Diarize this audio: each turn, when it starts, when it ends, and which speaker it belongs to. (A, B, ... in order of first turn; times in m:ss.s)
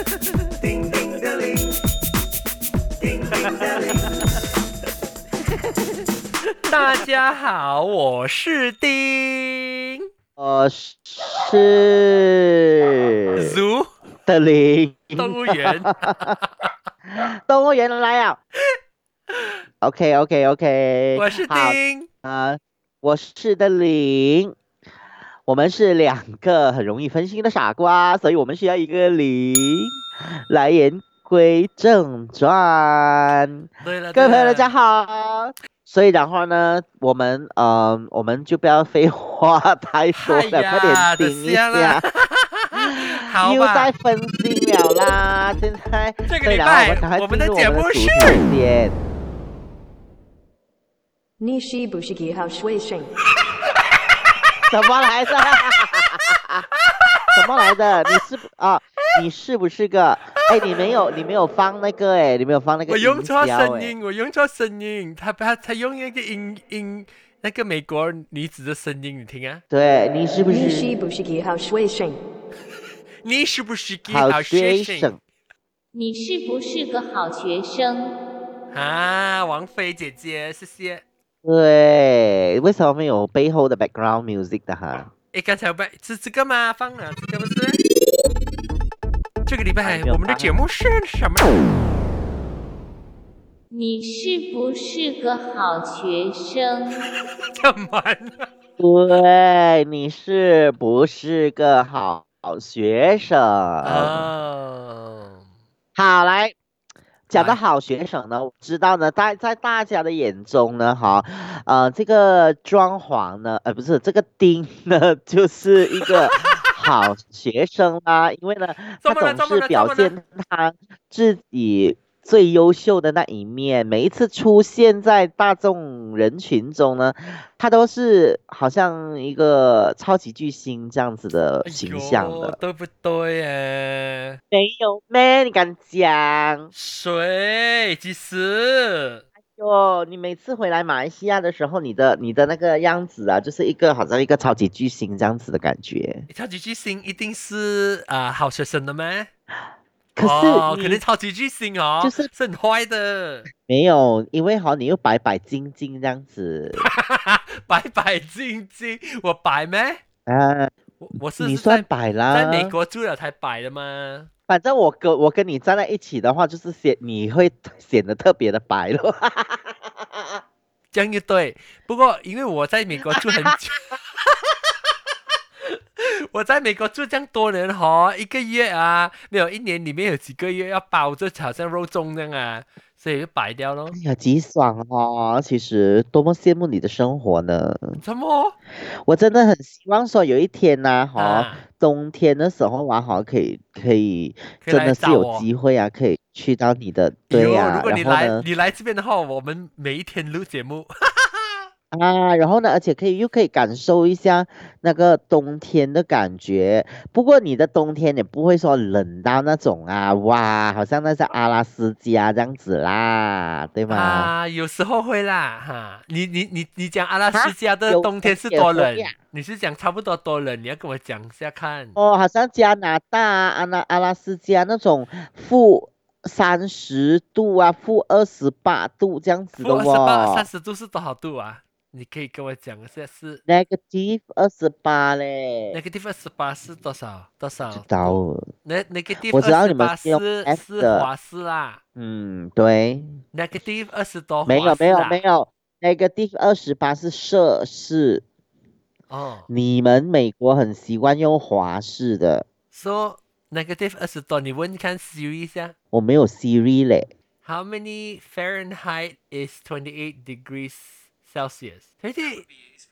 0:00.6-0:01.7 A
0:03.0-0:04.2 A
0:03.4-0:04.0 B
0:06.7-0:10.0 A
0:10.4-0:13.6 B
0:13.4-0:13.9 A
0:14.2-0:16.4 B
0:15.2-0:16.8 A
0:17.1-0:18.4 B
0:19.8-0:24.6 B
0:21.2-0:22.1 A
0:25.5-0:42.0 B
0:33.8-0:34.7 A
0:40.1-0:43.9 A
0:42.8-0:49.0 B
0:46.3-0:48.4 A
0:51.4-0:53.1 C
0:54.7-0:56.6 B
0:55.5-0:55.8 A
0:56.9-0:58.2 A
0:57.3-1:03.9 B
1:02.9-1:09.6 A
1:09.7-1:10.9 B
1:10.5-1:12.2 C
1:13.2-1:15.1 A
1:14.1-1:15.2 B
1:15.9-1:18.1 D
1:18.7-1:21.0 A
1:21.4-1:25.1 B
1:25.3-1:27.8 A
1:29.5-1:31.7 A
1:29.8-1:30.5 B
1:33.7-1:37.0 D
1:37.6-1:38.5 A
1:38.8-1:44.3 B
1:43.8-1:45.5 A
1:46.0-1:46.6 B
1:47.3-1:47.6 A
1:47.3-2:12.6 B
1:56.0-1:56.4 A
1:59.0-2:00.2 A
2:11.6-2:14.4 A
2:14.5-2:16.7 B
2:16.7-2:19.2 A
2:19.5-2:26.3 B
2:26.3-2:29.3 A
2:30.2-2:31.0 B
2:30.2-2:33.5 A
2:32.0-2:32.3 B
2:33.6-2:36.8 B
2:36.8-2:40.0 A
2:40.3-2:40.7 B
2:41.0-2:44.3 A
2:41.4-2:42.7 B
2:44.5-2:50.4 B
2:50.9-2:54.7 A
2:53.2-2:53.4 B
2:55.6-3:04.0 A
3:03.9-3:08.0 B
3:08.0-3:08.6 A
3:08.8-3:18.4 B
3:11.2-3:11.6 A
3:14.6-3:15.5 A
3:17.3-3:21.7 A
3:21.9-3:34.3 B
3:33.9-3:42.0 A
3:37.3-3:39.2 B
3:42.0-3:50.5 B
3:49.6-3:53.4 A
3:53.5-3:55.8 B
3:55.7-4:01.8 A
3:57.7-3:58.5 B
3:59.3-4:01.1 B
4:02.0-4:03.2 B
4:03.3-4:05.2 A
4:04.5-4:08.2 B
4:09.1-4:09.5 A
4:09.5-4:12.5 B
4:12.7-4:15.7 A
4:15.9-4:17.1 B
4:17.4-4:22.5 A